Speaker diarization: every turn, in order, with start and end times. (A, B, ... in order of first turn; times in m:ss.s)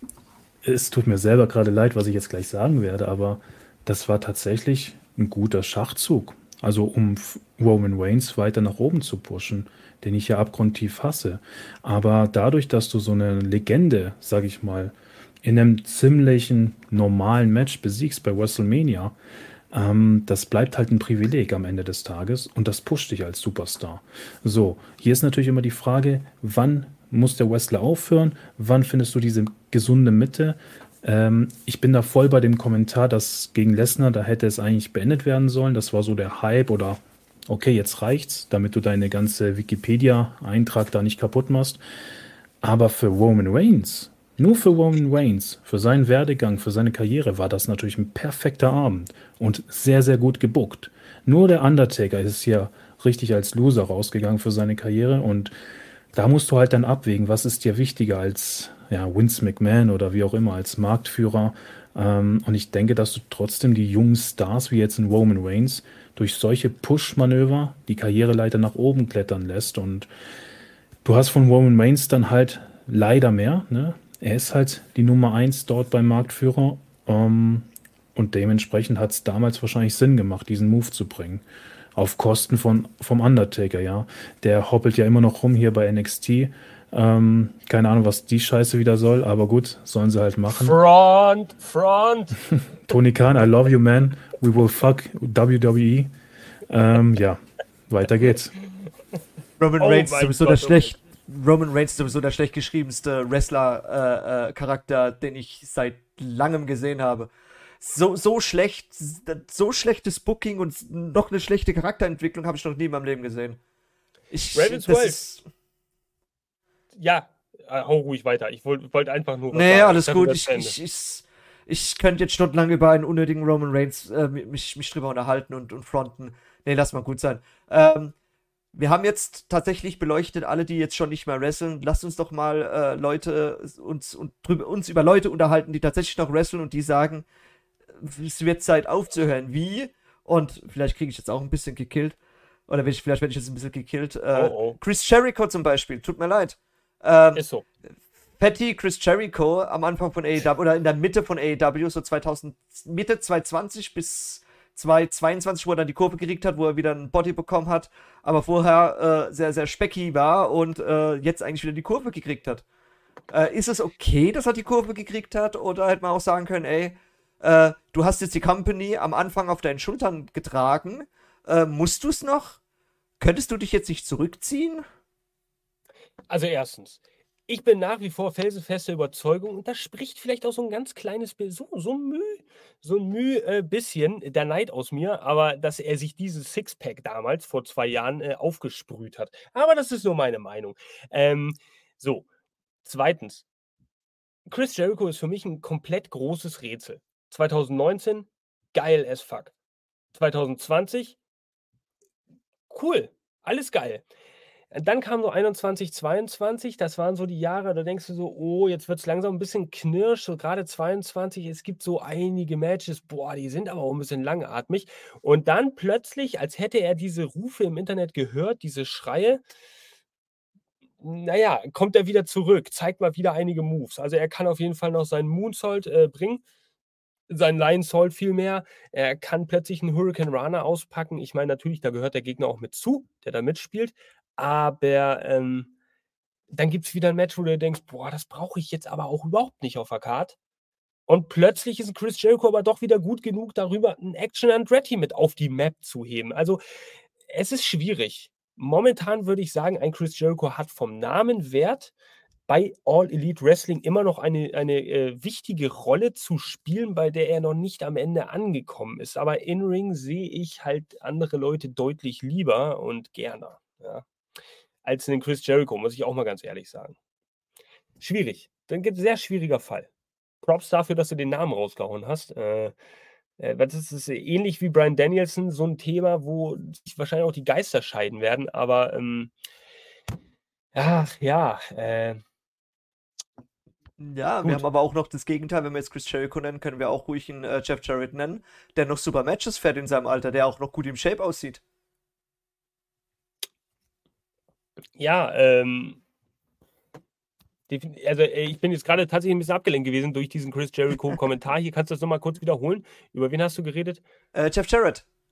0:00.6-0:19.2 A
0:19.7-0:41.8 A
0:42.6-0:55.5 A
0:56.1-1:10.1 A
1:11.0-1:21.4 A
1:22.0-1:30.8 A
1:30.5-1:32.4 B
1:32.8-1:36.1 A
1:36.7-1:38.6 A
1:39.6-1:53.6 C
1:39.8-1:41.0 B
1:54.3-1:55.5 C
1:54.5-1:55.2 B
1:56.9-2:00.8 B
1:59.5-2:08.2 C
2:08.7-2:17.2 C
2:18.0-2:22.2 C
2:22.7-2:27.4 C
2:24.3-2:24.8 B
2:27.4-2:27.7 B
2:28.4-2:42.6 C
2:43.3-2:52.6 C
2:53.2-2:54.8 C
2:56.3-3:12.3 B
3:12.8-3:13.5 B
3:14.5-3:19.5 B
3:20.2-3:21.2 B
3:22.7-3:24.0 B
3:24.7-3:39.4 B
3:41.0-3:46.4 B
3:47.3-3:55.7 B
3:56.5-4:00.4 B
4:01.1-4:06.6 B
4:07.3-4:11.9 B
4:12.5-4:24.0 B
4:24.8-4:27.0 B
4:28.0-4:29.9 B
4:30.4-4:32.7 B
4:33.4-4:39.3 B
4:40.7-4:42.2 B
4:44.0-4:51.6 C
4:55.0-4:56.0 B
4:57.7-5:04.0 B
5:04.3-5:05.1 C